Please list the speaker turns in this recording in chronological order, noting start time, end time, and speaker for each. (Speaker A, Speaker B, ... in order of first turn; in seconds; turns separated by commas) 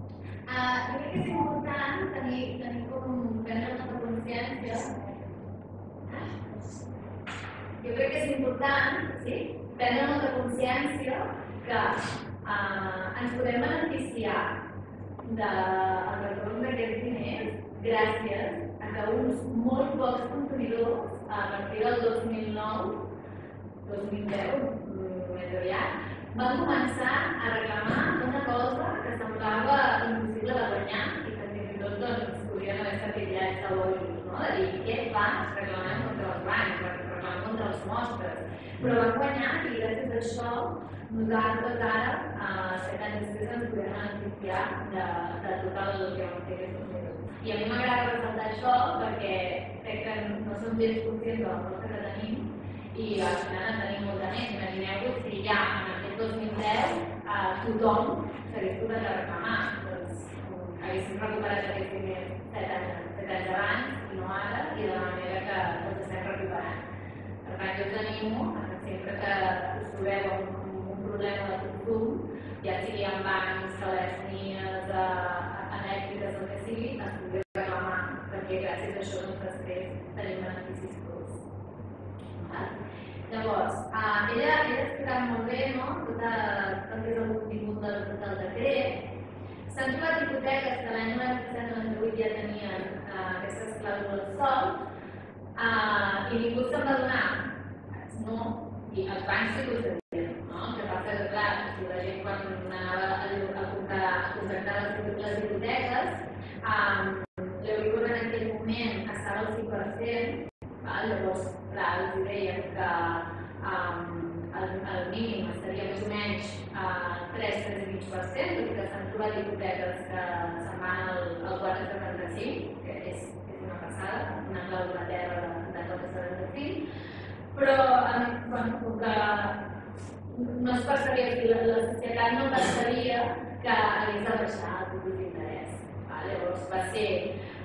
Speaker A: 0.5-4.9, Speaker A: 6.1-6.4, Speaker A: 7.8-14.5, Speaker A: 15.2-23.1, Speaker A: 23.8-66.8, Speaker A: 67.4-81.4, Speaker A: 82.4-82.8, Speaker A: 83.3-89.0, Speaker A: 89.7-94.8, Speaker A: 95.6-97.4, Speaker A: 98.1-126.8, Speaker A: 127.5-129.6, Speaker A: 130.3-137.3